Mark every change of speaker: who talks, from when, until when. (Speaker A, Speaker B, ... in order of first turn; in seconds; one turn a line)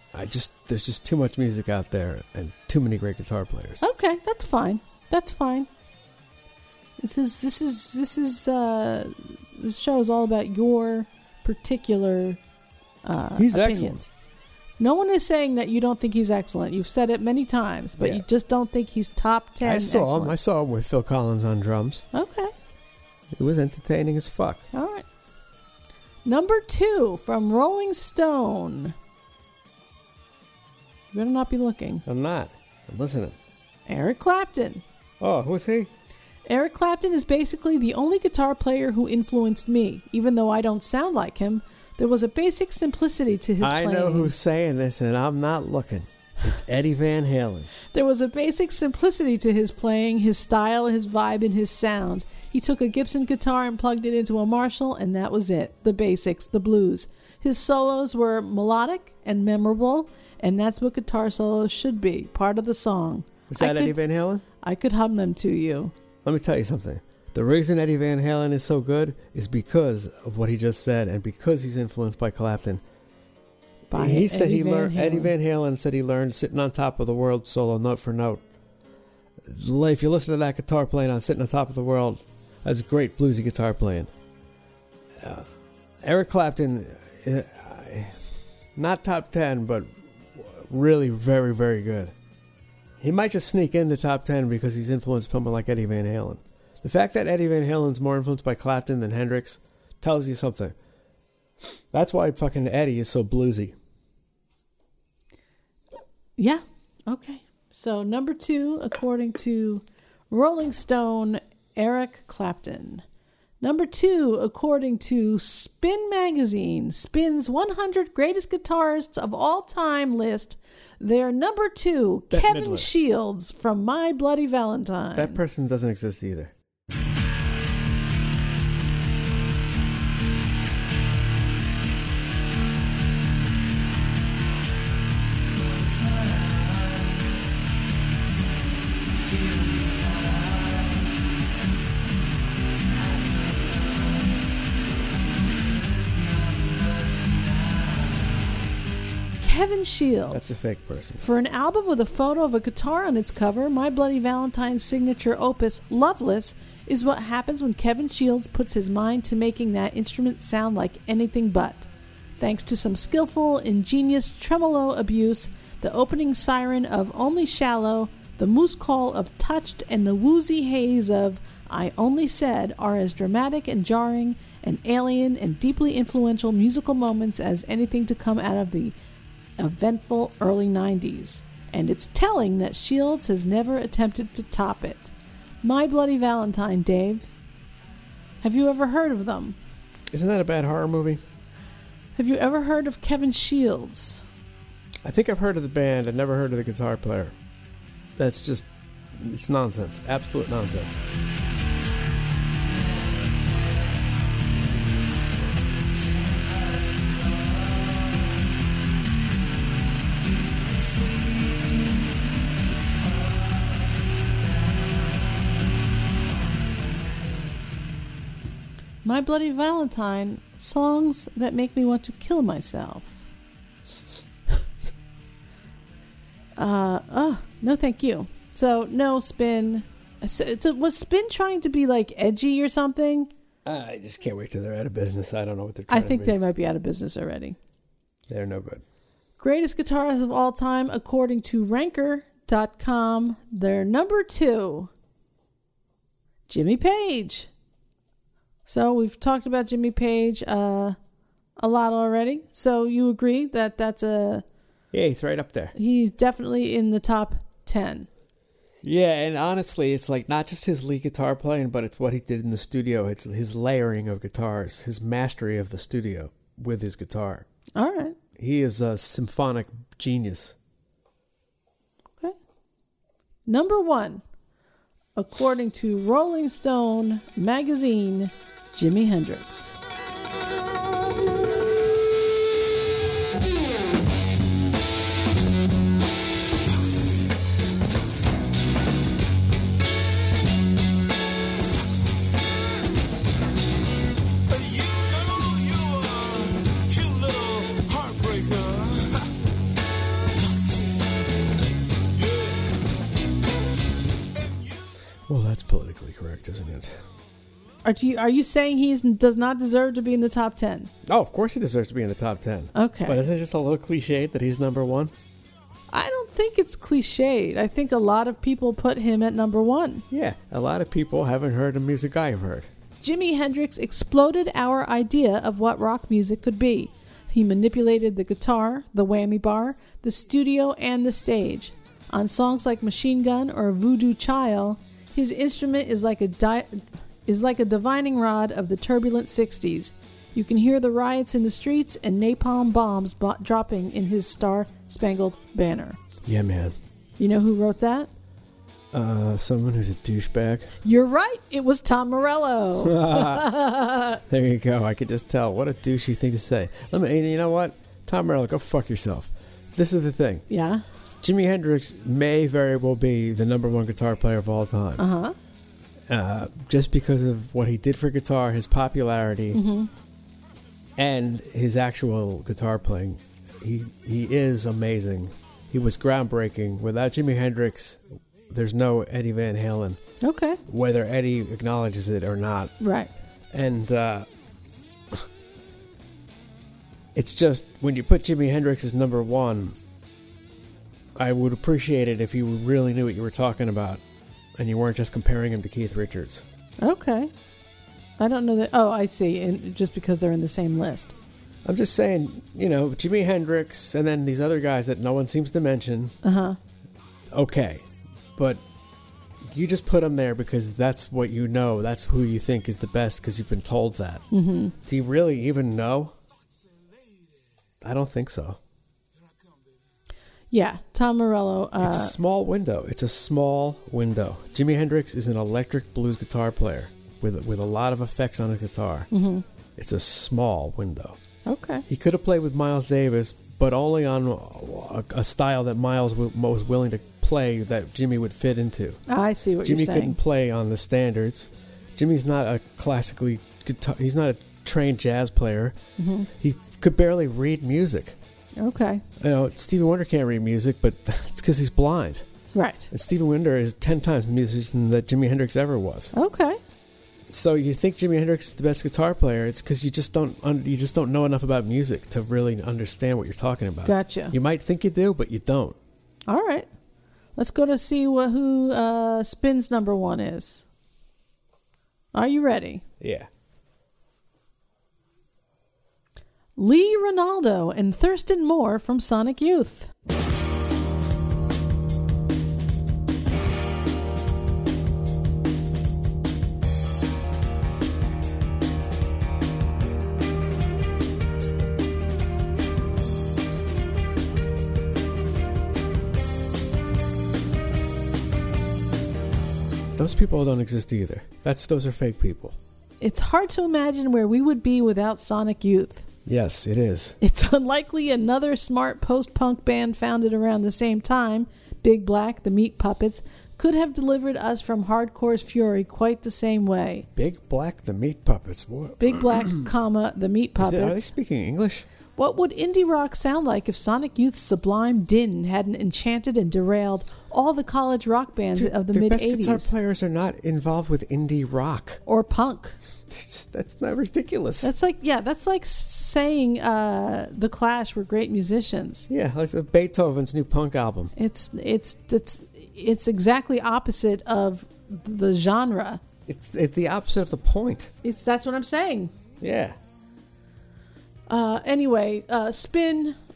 Speaker A: 0.1-3.8
Speaker B: 3.8-5.7
Speaker B: 7.0-12.4
Speaker B: 13.0-14.1
Speaker A: 13.3-14.1
Speaker B: 14.8-20.4
Speaker A: 18.0-18.2
Speaker A: 19.6-22.0
Speaker B: 22.1-22.5
Speaker A: 23.3-24.7
Speaker B: 24.7-25.0
Speaker B: 26.2-28.9
Speaker B: 31.1-32.0
Speaker A: 32.0-33.4
Speaker B: 33.9-34.8
Speaker A: 35.2-35.9
Speaker B: 36.5-44.3
Speaker A: 43.6-47.7
Speaker B: 47.8-64.0
Speaker A: 63.5-64.4
Speaker B: 64.6-65.9
Speaker A: 66.2-72.8
Speaker B: 73.9-75.3
Speaker A: 73.9-78.4
Speaker A: 79.4-84.1
Speaker A: 85.2-85.5
Speaker A: 86.0-92.1
Speaker A: 93.0-100.7
Speaker A: 101.9-103.7
Speaker B: 106.4-113.0
Speaker B: 113.6-125.4
Speaker A: 122.3-122.9
Speaker A: 125.1-126.5
Speaker B: 149.4-150.4
Speaker A: 150.3-151.2
Speaker B: 151.2-178.9
Speaker B: 179.6-187.3
Speaker B: 188.4-189.6
Speaker A: 190.1-191.2
Speaker B: 192.2-194.2
Speaker A: 195.0-197.3
Speaker A: 198.2-201.0
Speaker A: 211.2-211.7
Speaker A: 216.8-217.5
Speaker B: 219.0-223.2
Speaker B: 226.6-233.3
Speaker A: 233.6-236.4
Speaker B: 235.9-237.6
Speaker A: 238.3-238.8
Speaker B: 239.4-244.9
Speaker B: 246.5-247.5
Speaker B: 248.7-251.0
Speaker B: 251.6-254.4
Speaker A: 254.9-255.7
Speaker B: 255.7-258.1
Speaker A: 258.8-267.4
Speaker B: 267.8-268.2
Speaker A: 268.4-270.6
Speaker B: 273.5-274.2
Speaker B: 275.1-279.7
Speaker C: 291.7-292.4
Speaker C: 294.5-299.3
Speaker C: 300.4-301.2
Speaker C: 302.2-302.7
Speaker A: 305.3-307.0
Speaker B: 307.8-310.9
Speaker A: 311.1-315.1
Speaker B: 312.7-313.2
Speaker B: 315.9-320.0
Speaker A: 320.1-322.7
Speaker B: 323.0-346.0
Speaker A: 346.2-346.7
Speaker B: 347.2-348.1
Speaker A: 348.9-350.7
Speaker B: 350.8-354.2
Speaker A: 352.8-353.5
Speaker A: 354.3-360.4
Speaker B: 360.5-360.8
Speaker A: 361.2-365.0
Speaker B: 365.0-365.3
Speaker A: 366.1-369.6
Speaker B: 369.5-369.9
Speaker A: 370.9-380.0
Speaker B: 380.2-380.6
Speaker A: 380.7-382.7
Speaker B: 382.8-383.1
Speaker A: 383.5-384.3
Speaker A: 387.1-389.8
Speaker A: 391.1-394.0
Speaker A: 394.6-396.4
Speaker B: 396.8-397.3
Speaker B: 398.2-401.1
Speaker A: 401.6-406.2
Speaker B: 406.2-406.6
Speaker A: 407.3-408.6
Speaker A: 409.4-414.2
Speaker B: 414.3-414.7
Speaker A: 414.8-416.1
Speaker A: 417.8-418.6
Speaker B: 420.5-422.1
Speaker A: 421.8-429.1
Speaker B: 429.1-429.4
Speaker A: 429.8-431.2
Speaker B: 431.4-431.9
Speaker A: 431.9-439.0
Speaker B: 439.1-440.2
Speaker A: 439.6-445.8
Speaker B: 446.0-446.3
Speaker A: 446.3-448.2
Speaker B: 448.6-449.0
Speaker A: 449.2-452.3
Speaker B: 452.5-452.9
Speaker A: 452.9-456.1
Speaker B: 456.1-456.6
Speaker A: 457.3-465.8
Speaker B: 463.8-464.3
Speaker B: 466.3-466.7
Speaker B: 467.4-470.6
Speaker B: 472.1-472.8
Speaker A: 473.0-473.3
Speaker B: 476.6-479.9
Speaker A: 499.9-502.6
Speaker B: 503.0-506.1
Speaker A: 506.2-507.2
Speaker B: 507.2-517.0
Speaker A: 517.1-519.7
Speaker B: 519.0-521.1
Speaker A: 520.6-521.9
Speaker B: 522.1-529.7
Speaker A: 528.5-532.0
Speaker B: 532.0-532.8
Speaker A: 533.1-534.7
Speaker B: 534.6-539.1
Speaker A: 539.1-541.1
Speaker B: 541.1-546.0
Speaker A: 546.3-547.9
Speaker B: 548.0-549.1
Speaker A: 549.4-549.8
Speaker B: 551.3-553.1